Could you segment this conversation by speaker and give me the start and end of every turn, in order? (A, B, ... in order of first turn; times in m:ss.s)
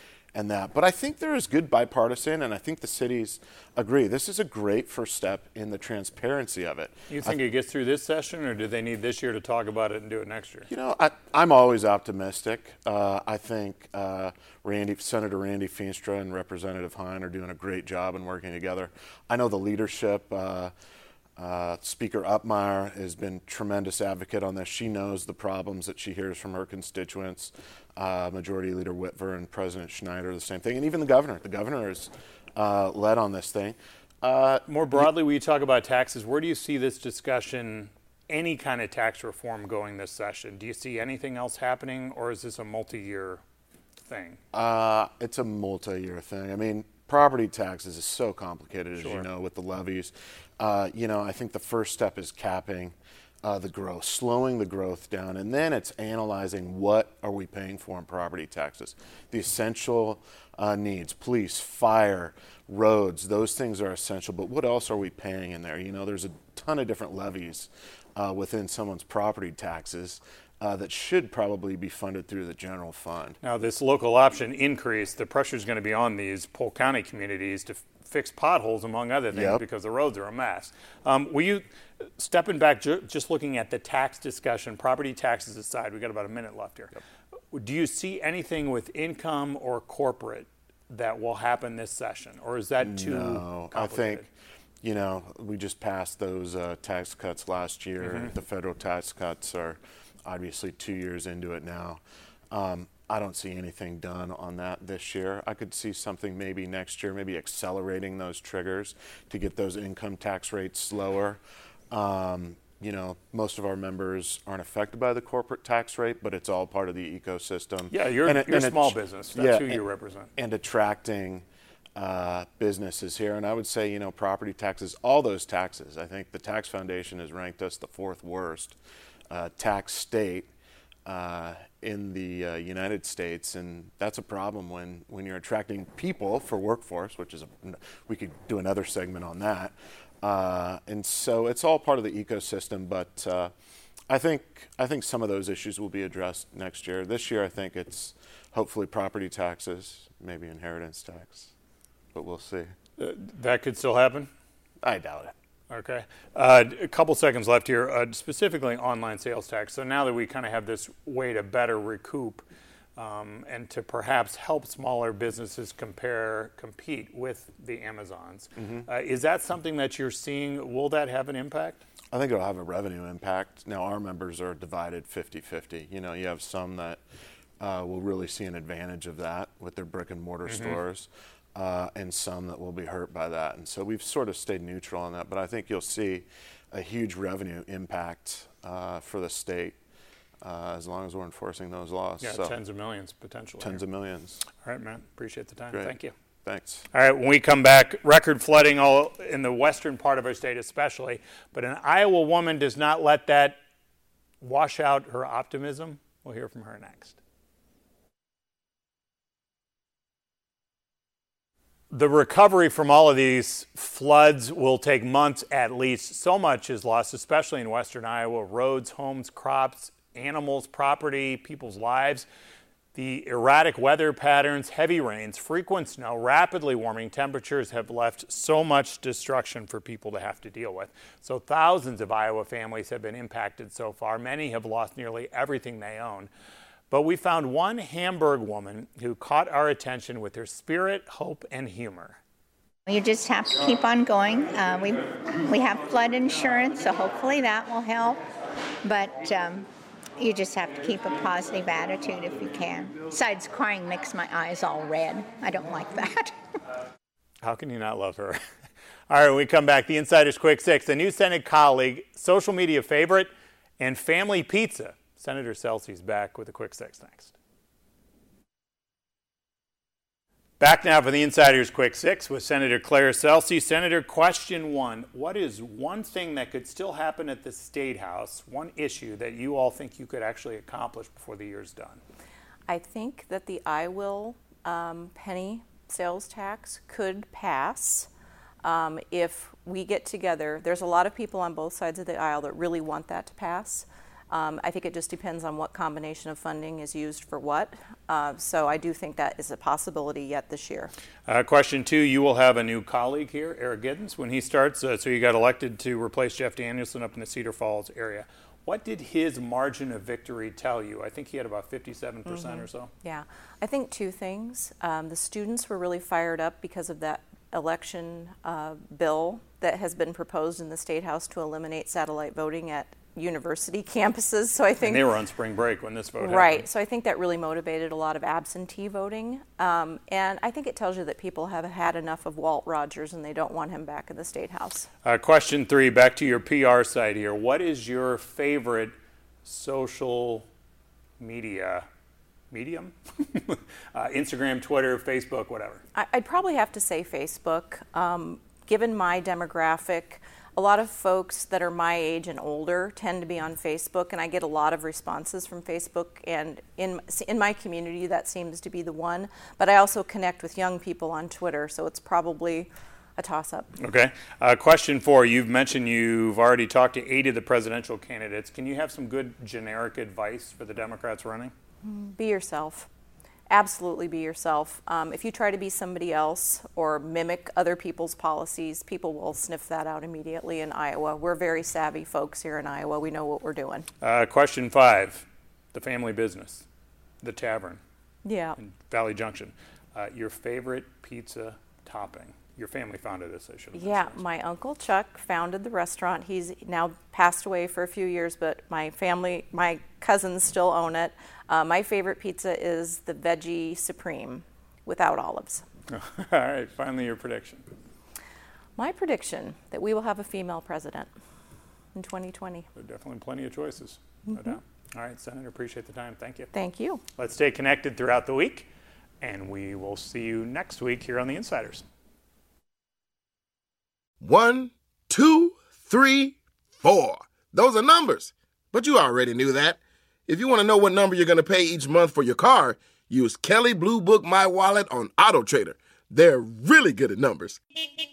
0:00.3-0:07.4 A
0:07.1-0:10.7 B
0:10.7-0:20.7 A
0:21.4-0:35.1 A
0:34.7-0:43.4 B
0:44.1-0:44.4 B
0:44.5-1:13.4 A
0:49.0-0:49.2 B
1:13.4-1:21.6 B
1:19.3-1:19.6 A
1:22.2-1:27.0 B
1:27.5-1:34.2 B
1:32.8-1:34.3 A
1:34.8-1:51.4 A
1:38.0-1:38.3 B
1:51.9-1:59.8 A
1:57.9-2:00.3 B
2:00.4-2:01.4 A
2:02.0-2:08.8 A
2:09.3-2:10.5 A
2:11.1-2:23.5 A
2:24.1-2:31.5 A
2:32.1-2:32.7 A
2:33.0-2:34.3 B
2:34.8-2:35.3 A
2:35.7-2:42.4 B
2:43.0-2:51.8 B
2:48.6-2:48.9 A
2:52.1-2:57.0 A
2:57.6-3:09.8 A
3:00.5-3:00.8 B
3:10.4-3:12.5 A
3:12.2-3:13.8 B
3:13.6-3:14.4 A
3:14.5-3:16.1 B
3:15.7-3:16.9 A
3:16.9-3:23.6 B
3:24.4-3:27.2 B
3:31.9-3:42.3 B
3:42.9-3:56.3 B
3:56.9-4:02.2 B
4:02.9-4:08.2 C
4:08.8-4:09.7 C
4:10.2-4:16.3 C
4:17.4-4:18.4 B
4:19.1-4:27.4 B
4:30.6-4:42.0 B
4:42.7-4:48.1 D
4:48.6-5:00.9 D
5:01.3-5:12.9 B
5:12.3-5:25.1 D
5:24.8-5:26.6 B
5:26.2-5:34.9 D
5:35.0-5:38.9 B
5:39.4-5:40.5 B
5:41.2-5:41.9 B
5:42.5-5:45.8 B
5:46.0-6:03.7 D
6:03.8-6:11.5 B
6:11.8-6:12.9 D
6:13.5-6:23.9 D
6:24.0-6:26.7 B
6:27.2-6:27.8 B
6:28.2-6:28.6 D
6:28.6-6:34.2 B
6:33.8-6:45.6 D
6:45.9-6:47.6 B
6:48.8-6:51.1 D
6:52.0-6:52.7 D
6:52.8-6:56.5 B
6:54.3-6:54.6 D
6:56.5-6:57.0 D
6:57.2-6:58.7 B
6:59.2-7:01.8 B
7:04.2-7:17.6 E